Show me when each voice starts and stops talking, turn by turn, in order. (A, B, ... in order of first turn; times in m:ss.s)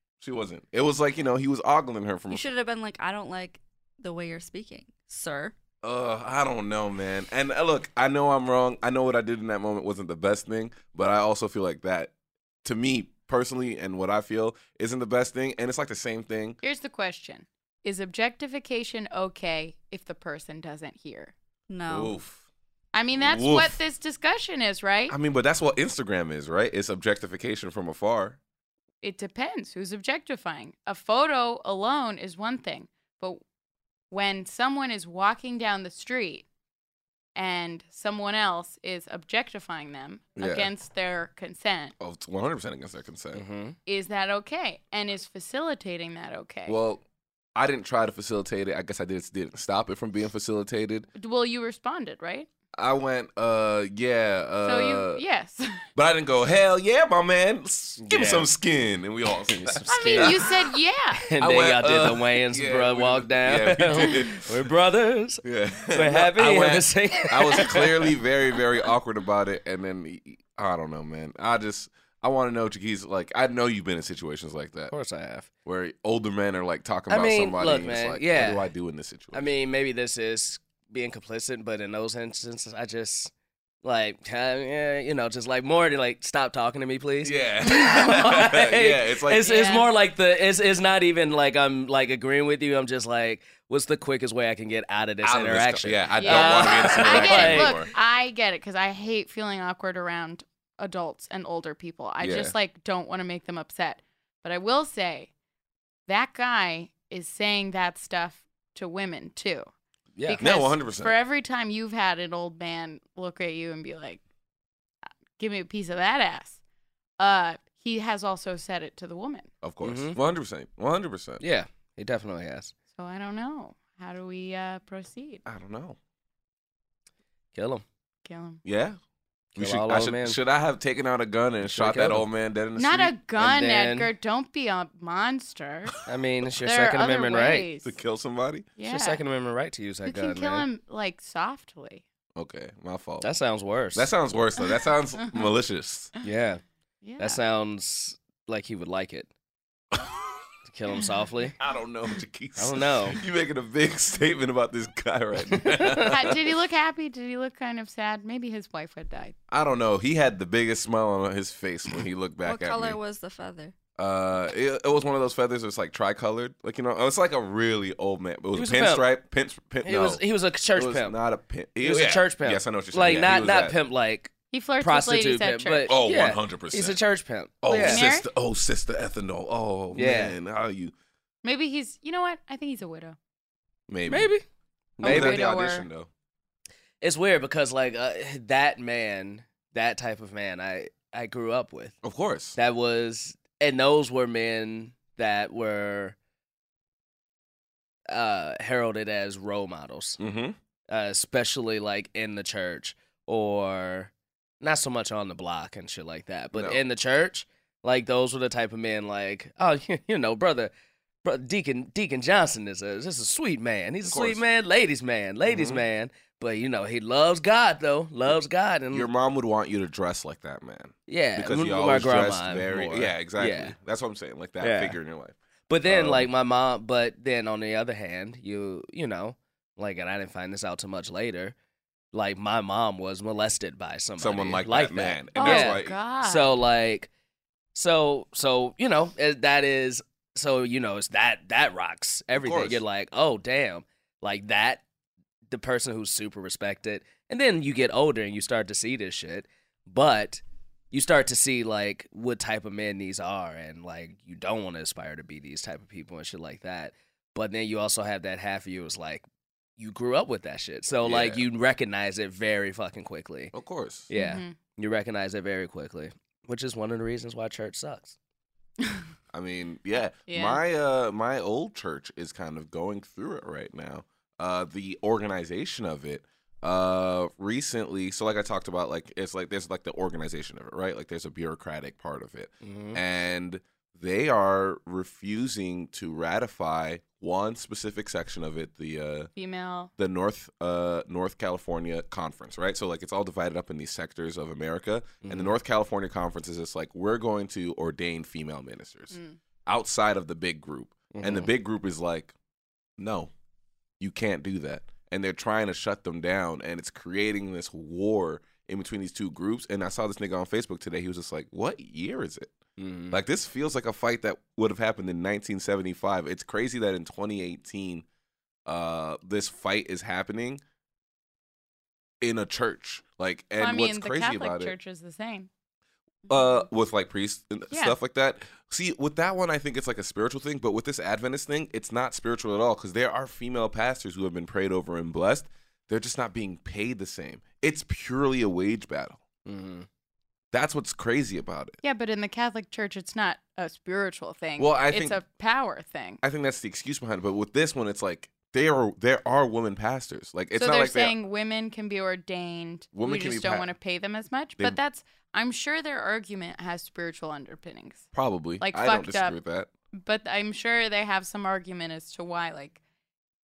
0:00.2-0:02.4 A
0:02.3-0:05.5 B
0:05.8-0:12.1 A
0:12.6-0:16.6 A
0:16.6-0:21.3 C
0:21.7-0:22.1 B
0:21.9-0:22.4 A
0:22.9-0:25.1 C
0:23.1-0:23.8 A
0:25.1-0:28.4 A
0:29.0-0:33.4 C
0:34.1-0:36.4 C
0:37.3-0:41.9 C
0:40.4-0:40.7 A
0:42.0-0:43.4 A
0:43.3-0:43.8 D
0:43.8-0:46.8 C
0:46.7-0:47.0 A
0:47.5-0:51.1 A
0:51.1-0:52.5 C
0:52.7-0:55.2 A
0:54.6-0:55.8 C
0:55.9-1:00.5 A
0:58.0-0:58.5 D
0:59.5-1:00.4 D
0:59.9-1:01.2 C
1:01.2-1:08.2 D
1:01.4-1:04.7 A
1:05.4-1:14.9 A
1:14.9-1:15.5 D
1:15.6-1:19.5 A
1:17.1-1:18.7 D
1:19.3-1:23.3 D
1:23.8-1:37.8 D
1:27.2-1:29.5 A
1:27.7-1:28.4 C
1:29.4-1:29.9 C
1:35.2-1:37.9 A
1:36.2-1:45.3 C
1:42.2-1:42.5 A
1:46.1-1:49.7 C
1:50.2-1:50.4 D
1:50.2-1:54.2 C
1:50.4-1:51.1 A
1:55.4-1:56.6 C
1:57.2-1:59.5 C
1:59.6-2:01.4 A
1:59.8-2:00.2 D
2:01.4-2:02.7 D
2:03.0-2:05.4 C
2:05.4-2:06.0 A
2:07.5-2:07.8 D
2:08.2-2:08.6 C
2:08.6-2:09.0 A
2:09.6-2:10.4 D
2:09.6-2:13.1 A
2:11.6-2:12.2 D
2:12.8-2:16.0 C
2:13.4-2:14.1 D
2:16.0-2:17.7 D
2:16.6-2:18.0 C
2:17.8-2:18.7 A
2:18.8-2:19.2 C
2:18.8-2:20.7 D
2:20.0-2:22.0 C
2:22.3-2:23.3 A
2:23.2-2:24.1 D
2:23.9-2:26.1 A
2:26.2-2:26.6 D
2:27.0-2:27.4 C
2:27.2-2:29.3 D
2:30.7-2:31.5 D
2:31.6-2:36.4 A
2:32.6-2:33.2 D
2:35.5-2:36.1 D
2:36.1-2:39.4 C
2:39.5-2:43.0 A
2:42.4-2:43.7 B
2:44.0-2:50.2 A
2:48.5-2:49.1 D
2:49.8-2:51.2 D
2:50.7-2:53.8 A
2:51.8-2:58.0 D
2:54.5-2:55.9 C
2:55.9-2:57.0 A
2:57.6-3:00.9 A
2:57.8-2:58.3 C
2:59.9-3:00.4 D
3:01.4-3:03.2 C
3:03.9-3:04.3 A
3:04.1-3:04.4 D
3:05.0-3:05.4 D
3:05.0-3:05.8 C
3:05.0-3:06.1 A
3:07.0-3:12.0 D
3:12.0-3:12.6 A
3:12.6-3:16.2 D
3:18.1-3:20.2 D
3:20.2-3:20.6 A
3:20.9-3:30.7 D
3:26.5-3:26.8 A
3:31.2-3:39.1 D
3:34.0-3:34.4 A
3:35.4-3:35.8 A
3:38.9-3:46.3 A
3:41.1-3:43.7 D
3:44.6-3:45.0 D
3:45.7-3:51.5 D
3:52.1-3:57.1 D
3:54.2-3:56.0 A
3:55.4-3:56.6 C
3:57.7-4:04.8 D
4:02.3-4:02.8 A
4:05.5-4:19.2 D
4:19.8-4:23.5 D
4:21.0-4:21.4 A
4:23.5-4:24.1 A
4:24.1-4:28.2 D
4:24.1-4:24.5 C
4:29.3-4:49.3 A
4:30.3-4:30.6 C
4:42.6-4:43.0 D
4:49.4-4:49.9 C
4:50.0-5:02.3 A
4:55.2-4:55.5 D
4:59.1-4:59.4 C
5:01.1-5:01.5 D
5:03.0-5:03.3 A
5:04.0-5:12.6 A
5:12.8-5:13.2 D
5:13.1-5:18.0 A
5:18.6-5:20.6 A
5:22.2-5:24.7 A
5:23.6-5:25.5 C
5:26.3-5:39.2 A
5:27.7-5:28.0 C
5:39.4-5:39.9 D
5:40.5-5:41.8 A
5:41.8-5:46.2 C
5:44.6-5:45.2 A
5:46.2-5:51.1 A
5:50.5-5:58.1 C
5:52.9-5:53.7 A
5:58.1-5:59.7 A
5:58.6-5:59.4 C
5:59.9-6:02.8 C